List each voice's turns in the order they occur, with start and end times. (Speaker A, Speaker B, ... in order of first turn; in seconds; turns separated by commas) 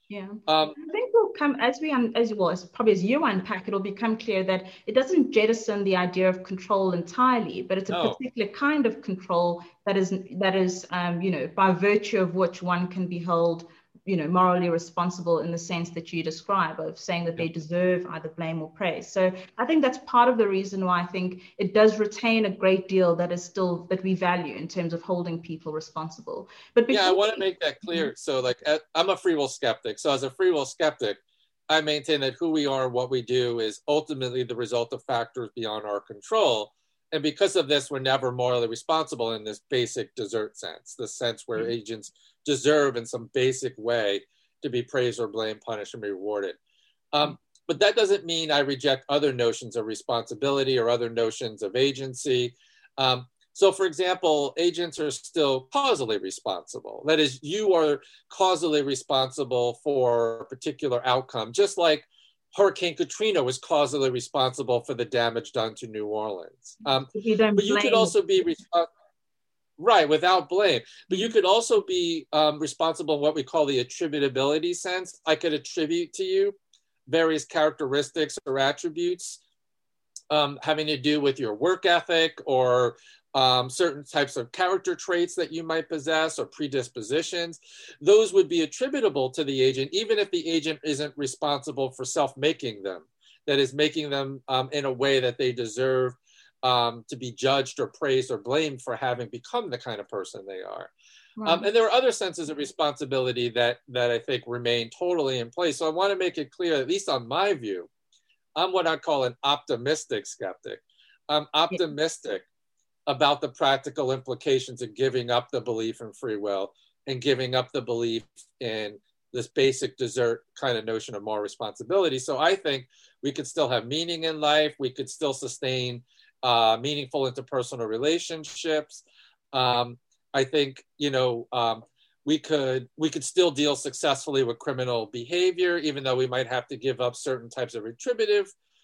Speaker A: 0.1-28.1, Speaker B: 0.5-0.8, Speaker B: 7.9-8.2, Speaker B: 26.9-46.6, Speaker B: 47.1-68.9, Speaker A: 67.1-68.2, Speaker B: 69.8-76.5, Speaker B: 77.1-79.4, Speaker B: 80.3-100.9, Speaker A: 101.4-101.7, Speaker B: 101.5-107.9, Speaker B: 108.5-112.5, Speaker B: 113.1-138.5